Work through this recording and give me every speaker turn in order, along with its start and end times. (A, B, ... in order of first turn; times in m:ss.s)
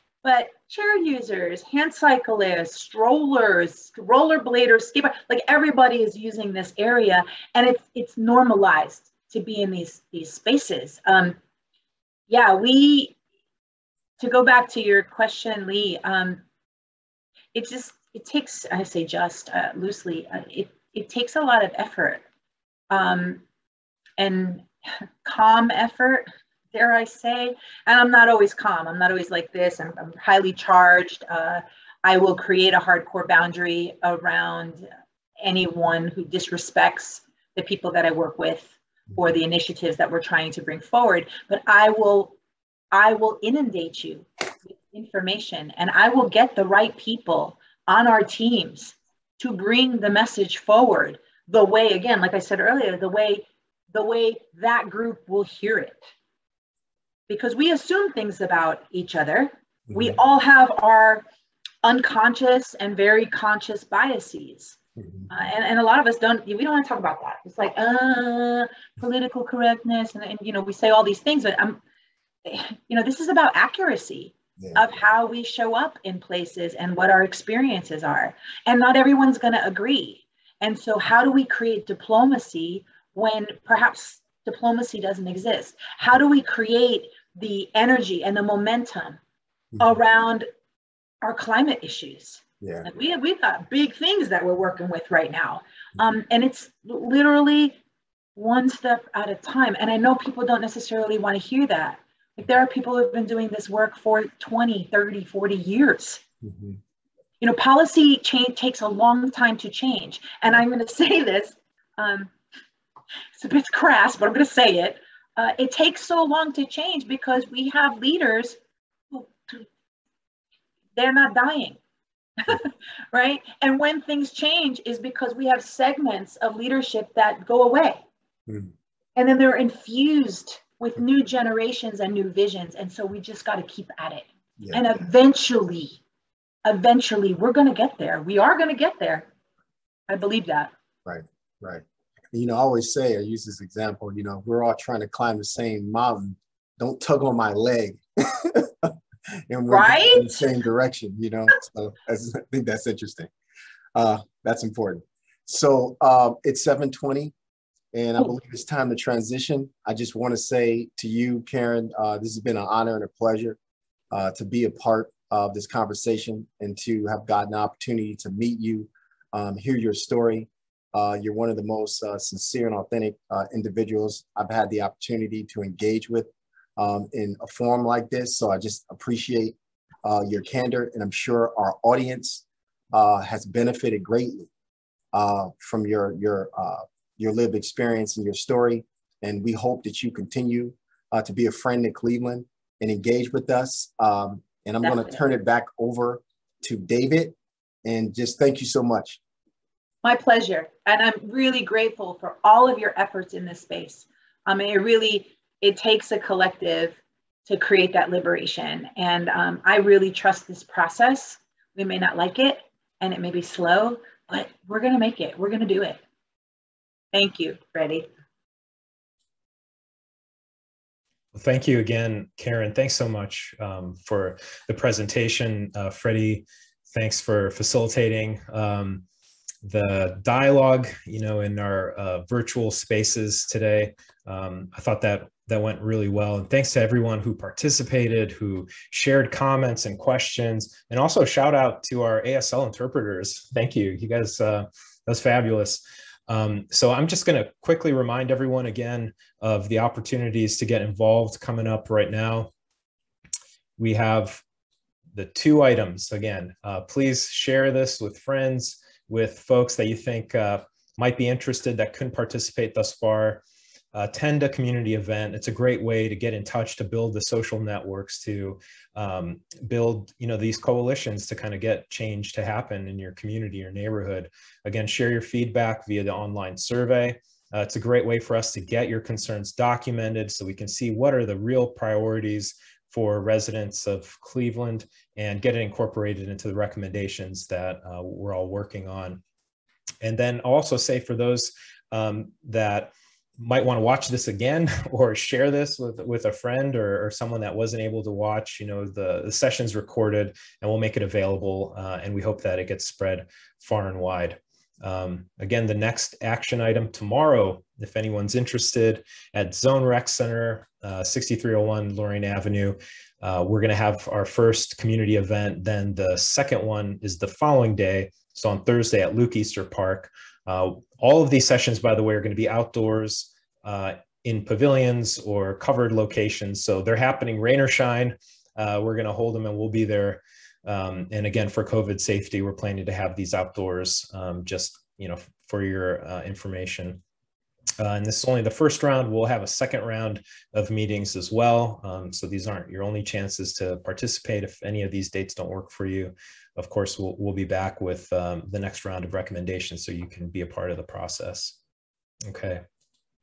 0:00.2-0:11.4 A
0:12.3-0:13.2 A
0:14.2-0:16.4 A
0:17.5-0:22.2 A
0:22.9-0:23.4 A
0:24.2-0:24.7 A
0:25.2-0:34.8 A
0:35.4-0:42.3 A
0:42.9-0:56.1 A
0:57.3-1:01.2 A
1:01.8-1:04.8 A
1:05.0-1:05.3 B
1:05.3-1:11.8 A
1:12.4-1:29.2 A
1:14.6-1:14.8 B
1:29.8-1:30.4 A
1:31.2-1:37.8 A
1:32.6-1:32.9 B
1:38.4-1:46.2 A
1:46.4-1:46.8 B
1:47.4-1:52.3 A
1:53.4-1:58.6 A
1:59.1-1:59.7 A
2:01.0-2:01.8 A
2:02.4-2:08.0 A
2:08.5-2:08.7 B
2:09.2-2:16.0 A
2:14.6-2:14.8 B
2:16.6-2:19.3 A
2:20.1-2:20.7 A
2:21.0-2:29.0 B
2:29.5-2:33.3 B
2:29.7-2:30.4 A
2:33.9-2:37.3 B
2:37.9-2:43.6 B
2:44.1-3:04.5 B
3:05.1-3:19.2 B
3:14.8-3:15.2 A
3:20.0-3:36.0 A
3:37.1-3:38.1 A
3:41.3-3:49.0 C
3:49.6-4:12.5 C
4:13.8-4:14.4 C
4:15.1-4:23.4 C
4:23.9-4:49.2 C
4:50.0-5:37.0 C
5:37.8-5:51.6 C
5:52.2-5:52.6 C